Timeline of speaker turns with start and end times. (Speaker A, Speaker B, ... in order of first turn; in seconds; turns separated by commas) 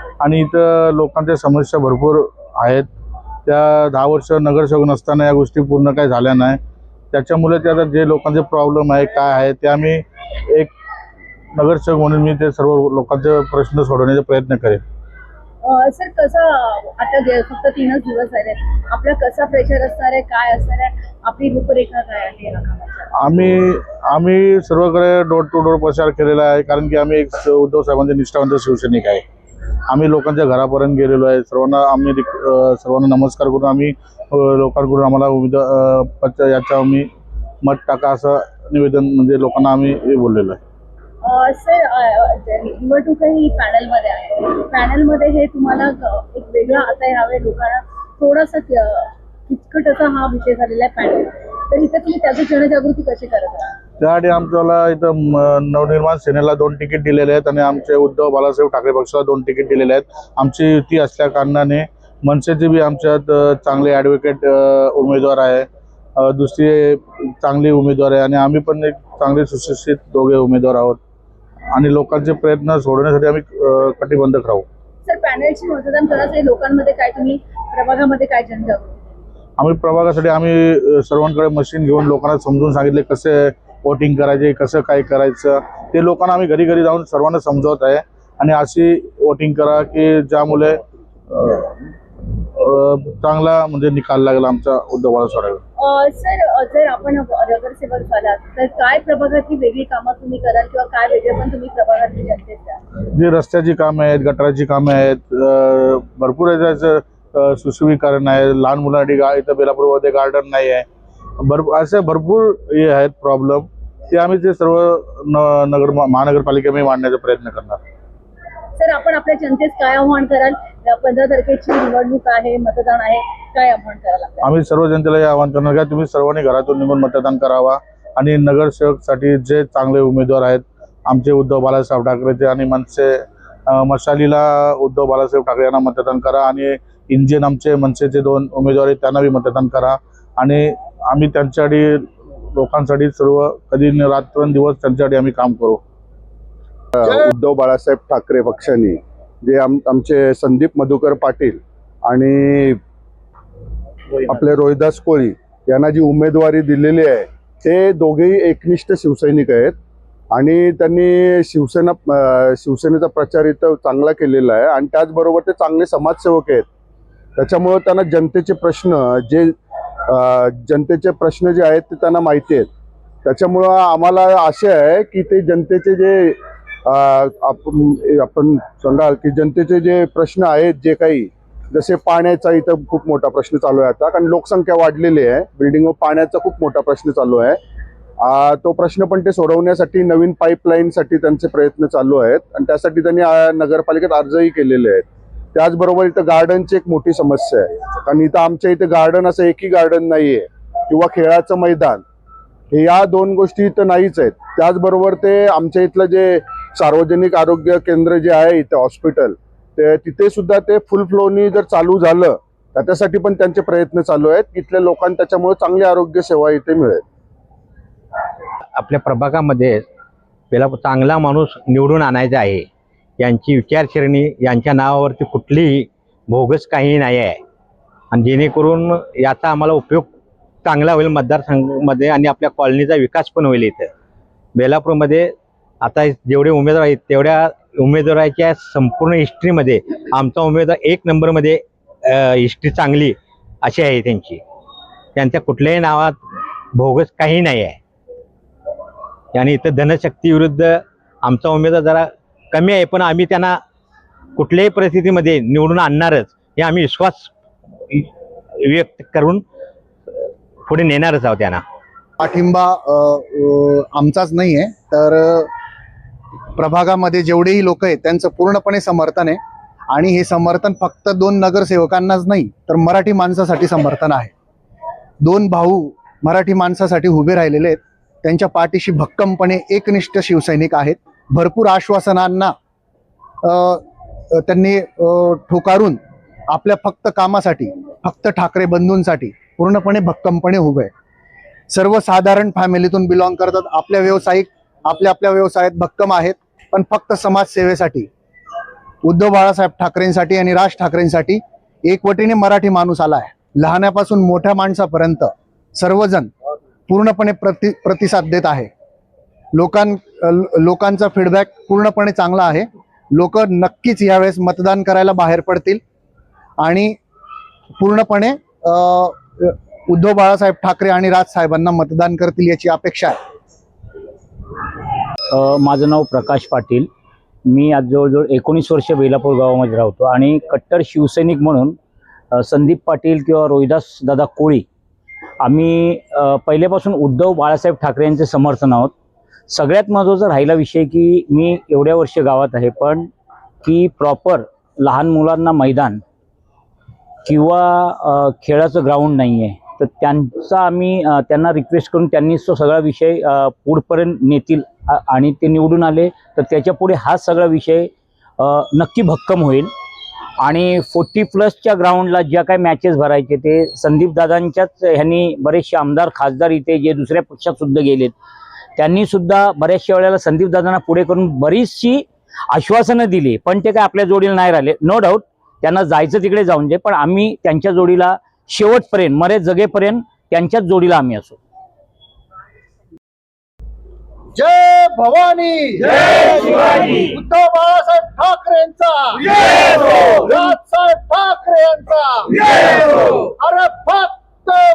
Speaker A: 0.2-2.9, Speaker A: 3.5-6.6, Speaker A: 7.1-10.7, Speaker A: 11.6-14.8, Speaker B: 15.6-23.1, Speaker A: 23.2-29.2, Speaker A: 29.9-37.1, Speaker A: 37.6-40.6, Speaker B: 41.2-53.7, Speaker A: 54.0-71.0, Speaker A: 71.7-74.7, Speaker B: 75.0-79.1, Speaker A: 79.6-91.8, Speaker A: 92.6-95.6, Speaker B: 95.8-102.8, Speaker A: 103.1-110.8, Speaker A: 111.4-117.8, Speaker B: 118.8-124.4, Speaker A: 124.4-145.8, Speaker C: 146.9-152.8, Speaker C: 154.3-159.7, Speaker C: 160.3-166.7, Speaker C: 167.4-169.5, Speaker C: 170.1-172.7, Speaker C: 173.2-187.6, Speaker C: 188.2-202.0, Speaker C: 202.7-217.0, Speaker D: 218.8-219.8, Speaker D: 220.5-222.7, Speaker D: 223.2-227.4, Speaker D: 228.1-230.1, Speaker D: 230.6-233.9, Speaker D: 234.6-244.4, Speaker D: 245.2-246.2, Speaker D: 246.8-247.8, Speaker D: 249.3-253.5, Speaker D: 254.4-257.3, Speaker D: 258.6-259.4, Speaker D: 260.7-261.6, Speaker E: 262.2-265.5, Speaker E: 266.6-269.4, Speaker E: 269.9-274.3, Speaker E: 275.2-282.5, Speaker E: 283.4-286.0, Speaker E: 286.5-290.9, Speaker E: 291.7-298.1, Speaker E: 299.0-306.3, Speaker E: 306.9-308.7, Speaker E: 309.5-315.8, Speaker E: 316.6-317.0, Speaker E: 317.8-323.1, Speaker F: 325.3-326.9, Speaker F: 327.5-331.8, Speaker F: 332.3-334.6, Speaker F: 335.4-338.9, Speaker F: 339.5-343.1, Speaker F: 343.6-346.0, Speaker F: 347.2-359.7, Speaker F: 360.4-368.1, Speaker F: 368.8-381.4